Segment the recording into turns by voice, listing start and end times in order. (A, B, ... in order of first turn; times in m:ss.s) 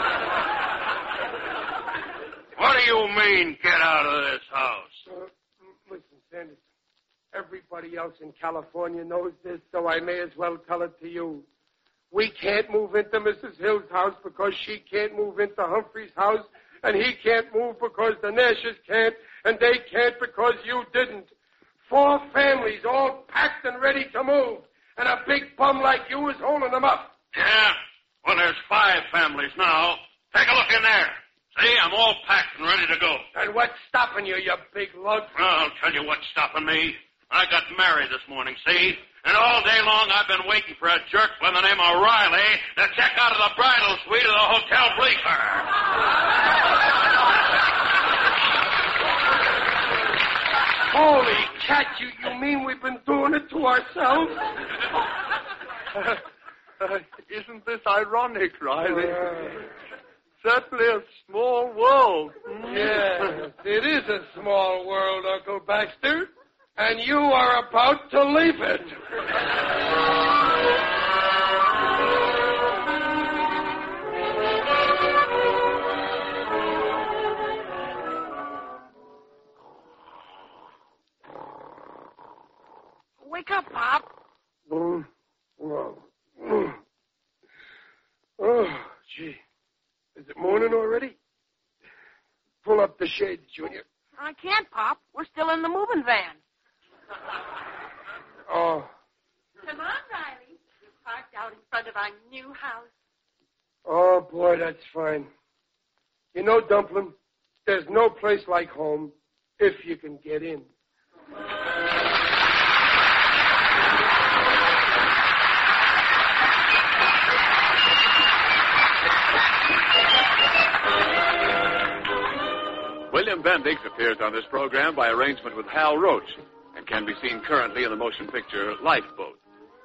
0:02.6-0:04.8 A
0:05.0-0:06.6 B
0:07.3-0:11.4 B
0:12.1-0:21.3 B
0:21.9-0:27.1 B
0:27.4-0:27.7 A
0:28.2-0:33.2 A
0:33.3-0:35.3 B
0:35.4-0:45.6 A
0:50.9-0:54.4 B
0:56.8-0:59.3 C
0:58.9-0:59.6 B
1:00.4-1:03.2 C
1:02.7-1:09.0 B
1:23.2-1:24.1 D
1:24.7-1:25.1 B
1:25.6-1:26.8 B
1:28.4-1:29.4 B
1:30.2-1:31.2 B
1:32.6-1:33.8 B
1:34.2-1:36.4 D
1:38.5-1:38.9 B
1:39.6-1:42.8 E
1:43.8-1:45.3 B
1:46.3-1:50.7 B
2:03.1-2:09.4 F